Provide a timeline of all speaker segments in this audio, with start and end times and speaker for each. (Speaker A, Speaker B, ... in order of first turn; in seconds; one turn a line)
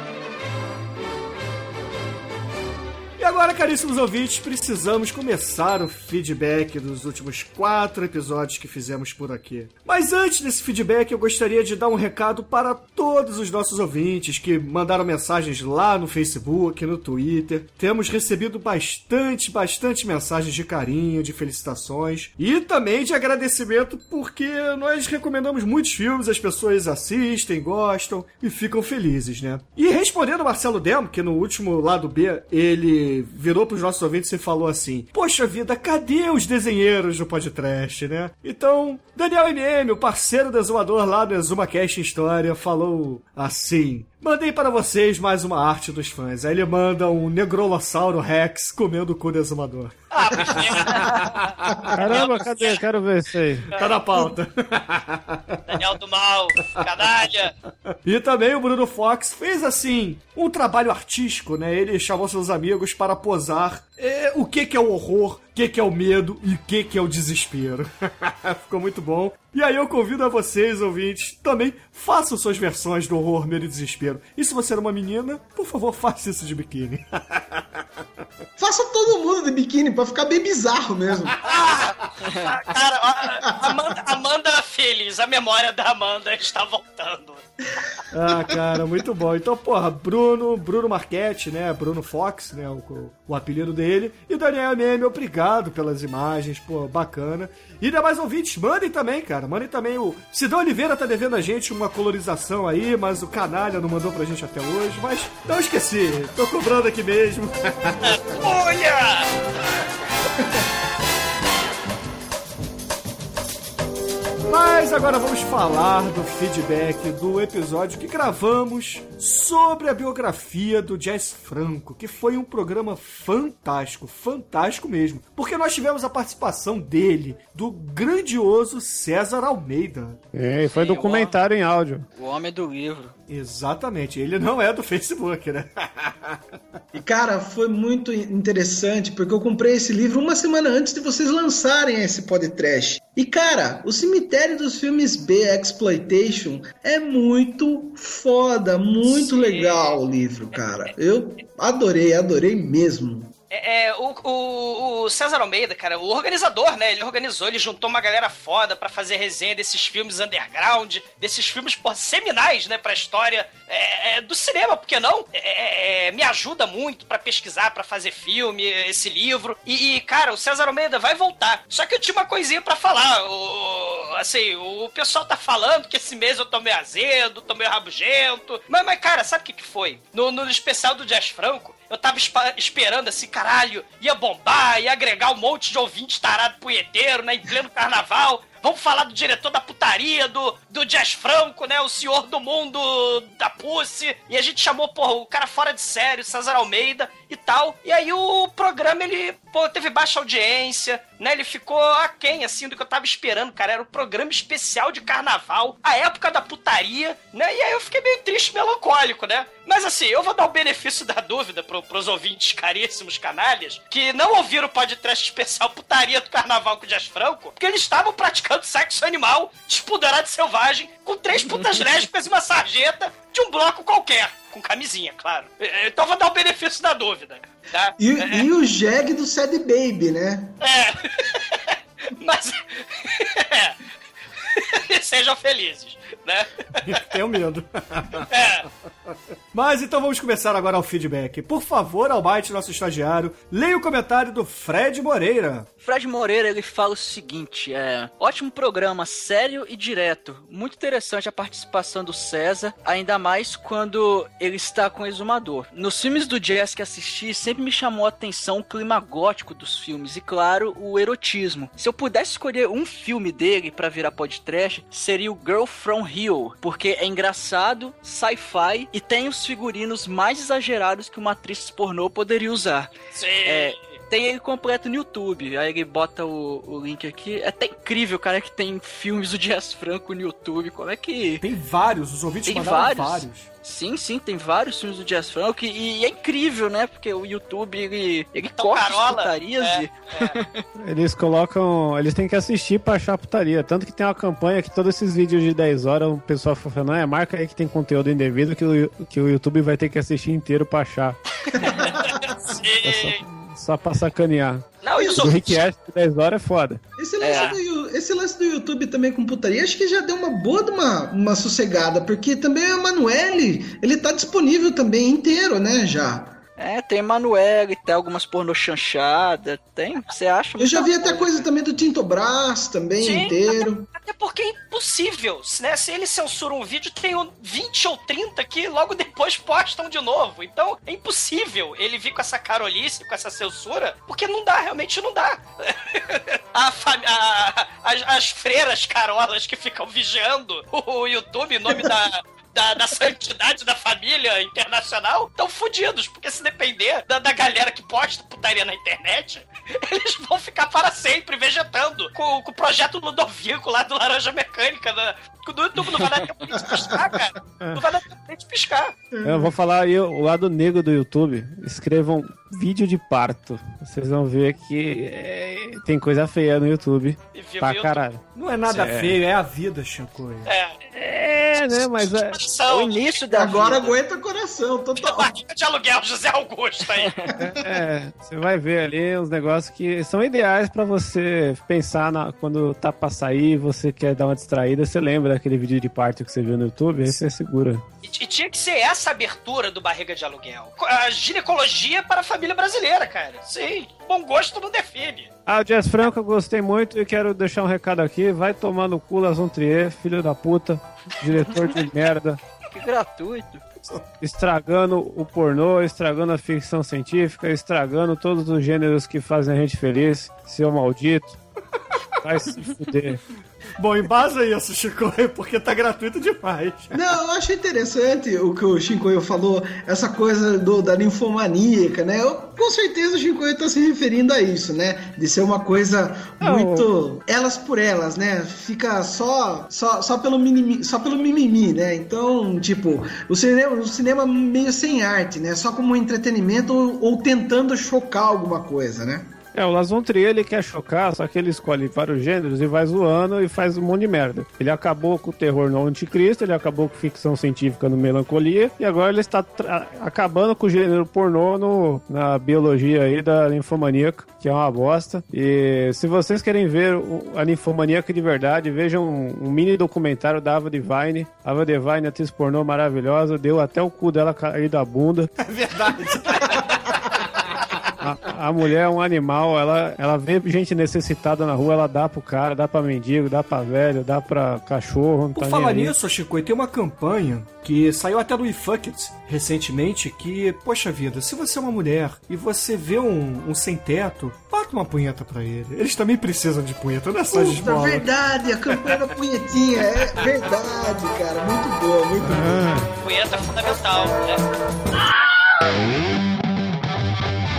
Speaker A: 3.2-51.4
Speaker B: 50.1-52.8
Speaker C: 51.9-53.7
Speaker A: 53.8-55.6
Speaker B: 55.7-57.5
Speaker A: 58.0-77.6
Speaker D: 78.6-81.3
Speaker B: 81.4-87.4
Speaker A: 88.1-108.4
Speaker B: 108.0-109.3
Speaker A: 114.5-130.2
Speaker C: 130.3-132.0
Speaker E: 130.7-131.4
Speaker E: 132.2-133.1
Speaker A: 133.3-136.4
Speaker D: 136.9-153.3
Speaker B: 149.0-150.0
Speaker B: 153.5-228.5
Speaker D: 228.0-230.6
Speaker B: 230.6-233.8
Speaker B: 234.4-237.1
Speaker A: 236.8-238.3
Speaker B: 238.3-238.7
Speaker A: 239.5-245.7
Speaker E: 245.8-272.9
Speaker B: 273.1-273.8
Speaker E: 273.4-281.4
Speaker A: 281.4-283.5
Speaker E: 282.4-290.6
Speaker B: 288.6-290.3
Speaker C: 290.8-301.8
Speaker D: 301.6-301.9
Speaker B: 301.8-303.2
Speaker C: 302.8-304.7
Speaker B: 304.8-305.6
Speaker D: 305.0-305.4
Speaker C: 305.2-306.8
Speaker D: 307.0-316.4
Speaker E: 307.2-307.6
Speaker B: 307.3-307.6
Speaker E: 316.6-321.5
Speaker D: 320.6-323.9
Speaker B: 323.0-358.9
Speaker D: 359.1-359.5
Speaker C: 359.2-369.2
Speaker B: 367.3-368.0
Speaker A: 368.3-370.5
Speaker B: 370.4-370.8
Speaker C: 370.9-372.4
Speaker B: 371.7-373.2
Speaker E: 372.7-373.9
Speaker D: 373.3-375.3
Speaker B: 375.0-377.1
Speaker C: 377.4-387.8
Speaker B: 388.0-395.3
Speaker C: 395.5-402.4
Speaker E: 402.7-403.7
Speaker C: 404.2-411.4
Speaker C: 412.2-413.2
Speaker A: 413.8-417.0
Speaker D: 416.9-439.3
Speaker C: 426.4-426.9
Speaker C: 439.5-465.3
Speaker A: 465.4-466.6
Speaker C: 468.0-475.9
Speaker A: 475.4-488.1
Speaker D: 487.3-492.7
Speaker C: 492.2-492.9
Speaker B: 493.0-494.4